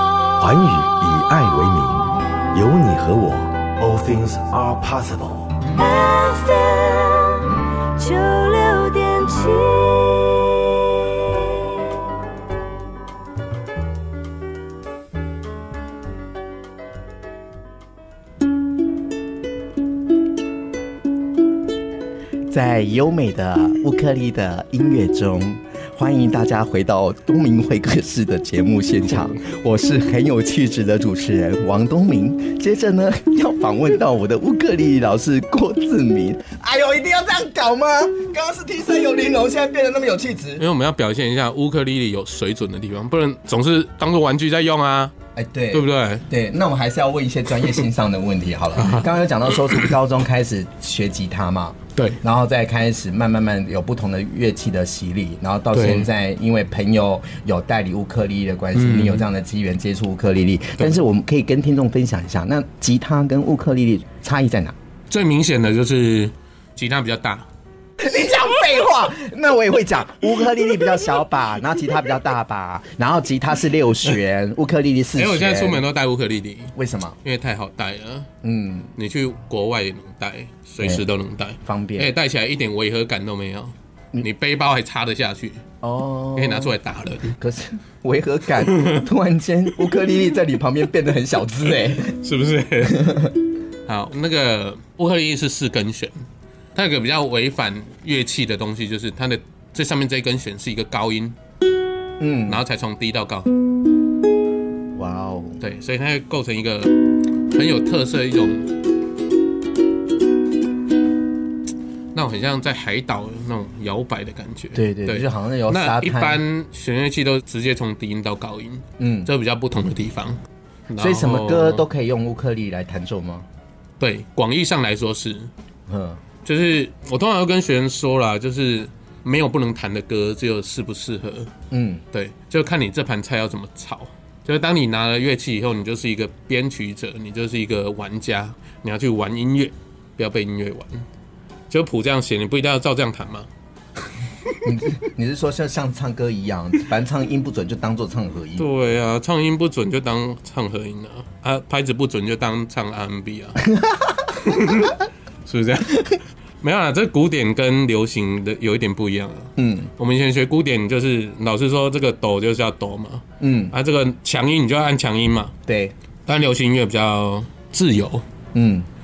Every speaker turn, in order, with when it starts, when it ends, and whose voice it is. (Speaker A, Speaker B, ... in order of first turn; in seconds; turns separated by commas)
Speaker A: 0.4-5.5, Speaker B: 5.8-11.7, Speaker C: 22.5-40.6, Speaker D: 40.6-45.1, Speaker C: 45.3-64.8, Speaker D: 45.7-46.2, Speaker D: 48.8-49.9, Speaker D: 55.7-56.1, Speaker D: 58.7-59.2, Speaker D: 65.1-67.5, Speaker C: 68.0-75.8, Speaker D: 75.2-78.3, Speaker C: 76.8-77.2, Speaker C: 78.4-78.9, Speaker D: 79.0-85.6, Speaker C: 81.6-82.1, Speaker C: 85.8-86.8, Speaker D: 86.3-87.4, Speaker C: 87.3-92.2, Speaker D: 88.6-89.0, Speaker D: 91.9-93.3, Speaker C: 92.8-93.3, Speaker D: 93.8-96.2, Speaker D: 96.7-101.3, Speaker C: 102.2-102.6, Speaker D: 102.5-103.5, Speaker C: 104.9-105.6, Speaker D: 105.6-106.9, Speaker D: 107.5-108.7, Speaker D: 112.1-121.8, Speaker C: 114.7-116.4, Speaker C: 119.0-119.3, Speaker C: 121.0-123.5, Speaker D: 124.0-125.5, Speaker C: 125.9-126.2, Speaker D: 126.4-131.5, Speaker C: 131.7-132.0, Speaker D: 132.1-141.0, Speaker D: 141.7-143.5, Speaker C: 144.6-148.7, Speaker D: 148.6-153.7, Speaker C: 153.7-154.2, Speaker D: 154.3-165.5, Speaker C: 159.6-159.9, Speaker C: 163.4-163.7, Speaker C: 165.7-165.9, Speaker D: 166.2-168.2, Speaker C: 168.5-168.9